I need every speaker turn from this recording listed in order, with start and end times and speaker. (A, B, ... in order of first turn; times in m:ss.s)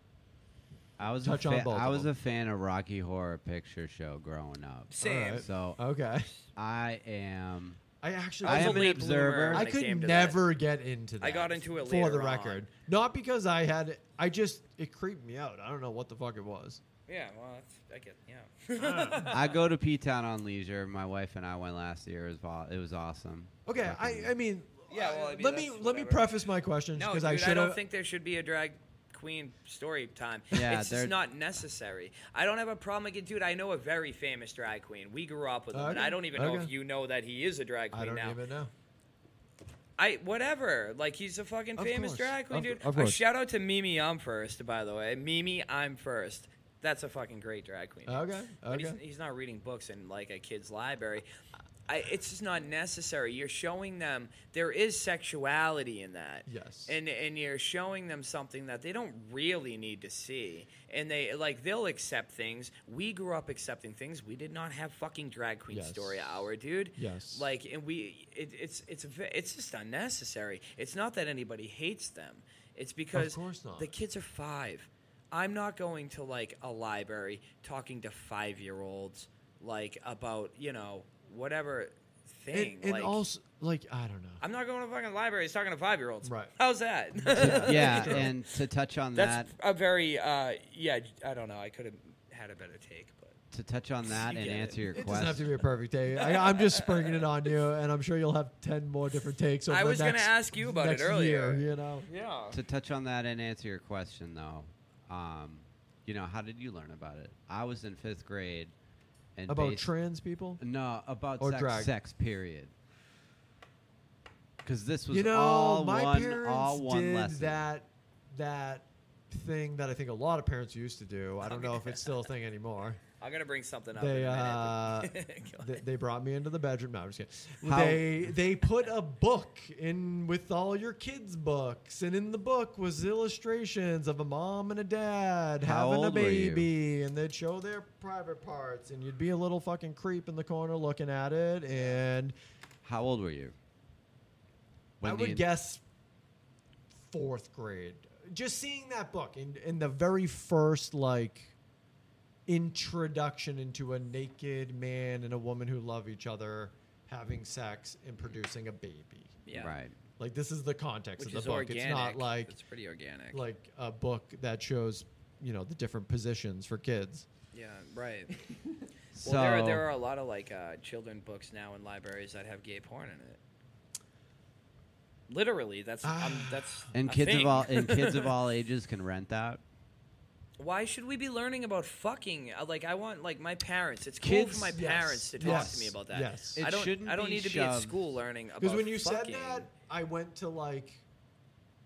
0:01.0-0:05.8 A
0:01.2-0:02.1 B
0:04.9-0:05.5 C
0:05.0-0:06.3 B
0:06.6-0:07.8 A
0:08.0-0:16.8 B
0:08.4-0:09.7 A
0:08.4-0:10.4 C
0:11.2-0:12.6 C
0:17.1-0:19.6 C
0:18.8-0:19.3 B
0:19.3-0:24.3 A
0:23.7-0:27.8 B
0:24.9-0:26.3 C
0:27.0-0:38.4 C
0:30.5-0:31.2 A
0:35.7-0:36.7 B
0:37.9-0:38.7 B
0:40.0-0:51.2 C
0:41.8-0:43.2 B
0:48.1-0:49.0 B
0:51.9-1:23.2 C
0:56.5-0:57.0 B
1:05.7-1:07.5 B
1:13.1-1:13.9 B
1:22.5-1:24.4 B
1:24.4-1:28.4 C
1:26.2-1:26.5 B
1:27.2-1:28.3 B
1:27.4-1:29.5 A
1:29.2-1:33.4 C
1:33.5-1:35.5 A
1:34.1-1:34.8 C
1:34.9-1:42.1 B
1:36.2-1:37.3 C
1:39.7-1:42.6 C
1:42.5-1:48.7 A
1:49.4-1:49.9 A
1:49.5-1:50.6 B
1:50.6-1:52.7 A
1:51.4-1:51.9 B
1:54.6-1:57.6 A
1:55.1-2:03.0 B
2:01.5-2:02.1 C
2:03.2-2:05.8 C
2:04.0-2:22.4 B
2:07.6-2:08.3 A
2:15.6-2:16.7 A
2:21.7-2:22.0 C
2:22.8-2:23.5 A
2:25.0-2:25.4 A
2:25.0-2:25.8 B
2:27.0-2:31.6 B
2:32.5-2:39.4 B
2:39.5-2:39.8 C
2:39.5-2:39.9 A
2:40.2-2:42.6 B
2:41.2-2:43.4 C
2:43.3-2:47.3 B
2:47.5-2:48.4 C
2:49.1-2:49.9 A
2:49.2-2:53.4 C
2:55.3-2:58.3 C
2:56.0-2:56.9 B
2:56.9-2:59.6 A
3:00.6-3:09.7 C
3:04.2-3:04.7 A
3:04.6-3:06.6 B
3:05.4-3:05.8 A
3:06.6-3:08.0 A
3:08.6-3:11.0 B